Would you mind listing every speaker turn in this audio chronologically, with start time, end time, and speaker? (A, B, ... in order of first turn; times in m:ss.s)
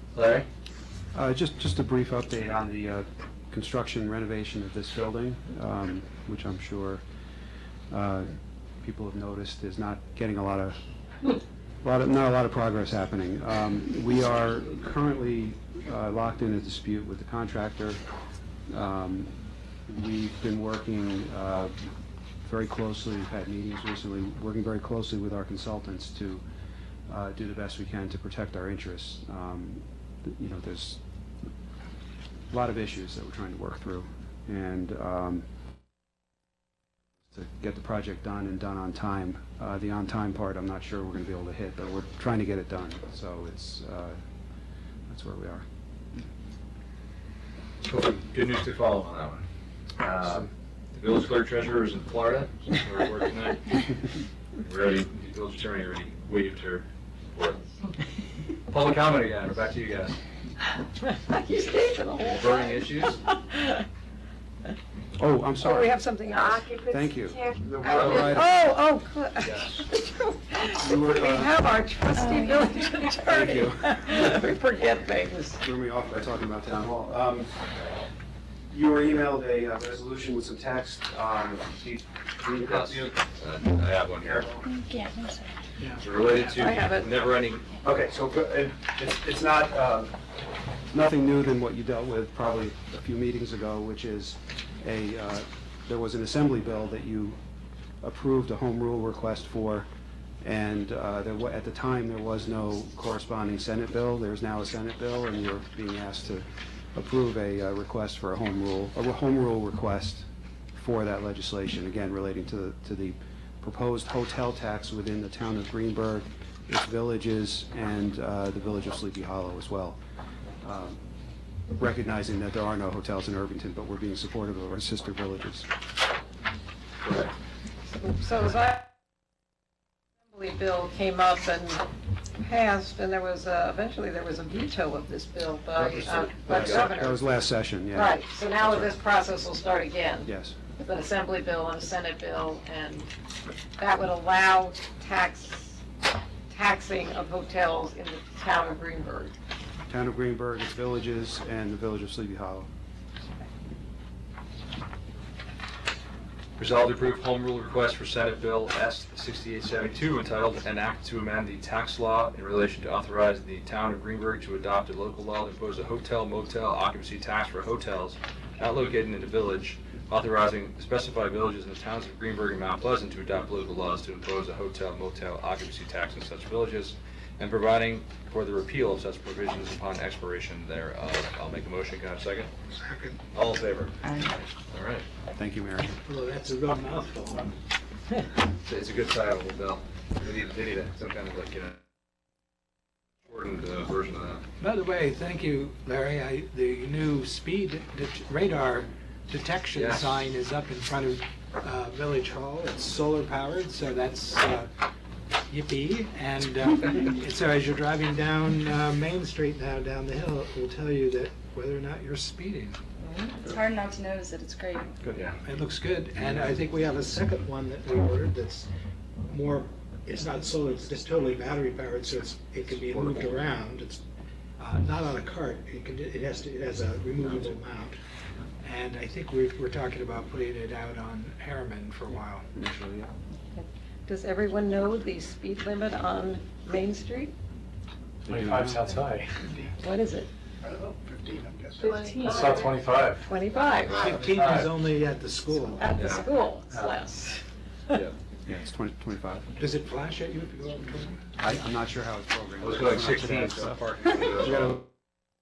0:00.1-0:00.5 A
0:01.1-0:07.0 B
0:07.9-0:08.3 B
0:08.8-0:10.8 B
0:11.8-0:18.0 B
0:18.7-0:19.3 B
0:19.9-0:21.7 B
0:22.4-0:26.4 B
0:27.1-0:31.0 B
0:32.5-0:35.4 B
0:37.3-0:44.2 B
0:45.1-0:45.6 B
0:47.8-0:49.4 A
0:50.0-0:53.9 A
0:50.2-0:50.5 B
0:54.6-0:57.6 A
0:58.7-1:00.2 A
1:01.0-1:03.8 C
1:02.2-1:03.2 A
1:05.2-1:05.9 B
1:05.6-1:06.9 C
1:06.7-1:08.5 B
1:07.8-1:08.4 A
1:08.2-1:15.6 C
1:09.4-1:09.8 A
1:10.8-1:11.6 B
1:12.3-1:13.0 D
1:13.2-1:14.2 B
1:15.6-1:17.5 B
1:18.7-1:23.2 B
1:22.5-1:24.5 A
1:24.2-1:24.7 B
1:24.7-1:25.5 D
1:26.0-1:27.7 A
1:26.5-1:27.1 C
1:27.8-1:30.2 B
1:30.9-1:37.4 B
1:38.0-1:39.9 B
1:40.4-2:00.0 B
2:00.6-2:01.0 B
2:01.7-2:05.7 B
2:07.0-2:07.3 A
2:07.9-2:08.9 C
2:10.3-2:11.8 C
2:12.4-2:17.3 C
2:15.8-2:18.9 B
2:16.0-2:17.2 A
2:17.9-2:23.1 C
2:20.2-2:20.6 B
2:23.8-2:25.8 C
2:26.5-2:29.3 C
2:29.9-2:32.7 B
2:36.6-3:02.5 A
3:02.8-3:03.2 E
3:03.3-3:04.0 A
3:04.0-3:04.4 D
3:04.7-3:05.0 A
3:05.3-3:06.0 B
3:06.0-3:07.6 E
3:08.6-3:11.8 A
3:13.2-3:14.4 A
3:14.6-3:24.7 E
3:19.7-3:20.2 A
3:25.5-3:32.8 E
3:33.4-3:35.0 D
3:35.1-3:35.4 A
3:35.4-3:38.7 E
3:39.3-3:44.0 E
3:42.8-3:43.4 B
3:44.6-3:48.0 E
3:48.6-3:52.5 E
3:52.5-3:53.1 B
3:53.5-3:57.3 C
3:58.2-3:59.0 B
3:58.3-3:59.4 F
3:59.8-4:00.3 C
4:00.6-4:01.9 E
4:01.8-4:02.7 D
4:02.0-4:02.3 C
4:02.2-4:03.3 F
4:03.2-4:04.0 C
4:03.8-4:04.7 A
4:03.9-4:05.9 E
4:05.7-4:07.4 C
4:05.9-4:06.3 A
4:07.9-4:08.2 A
4:08.4-4:09.5 B
4:09.6-4:11.2 E
4:11.4-4:14.8 B
4:12.6-4:14.8 A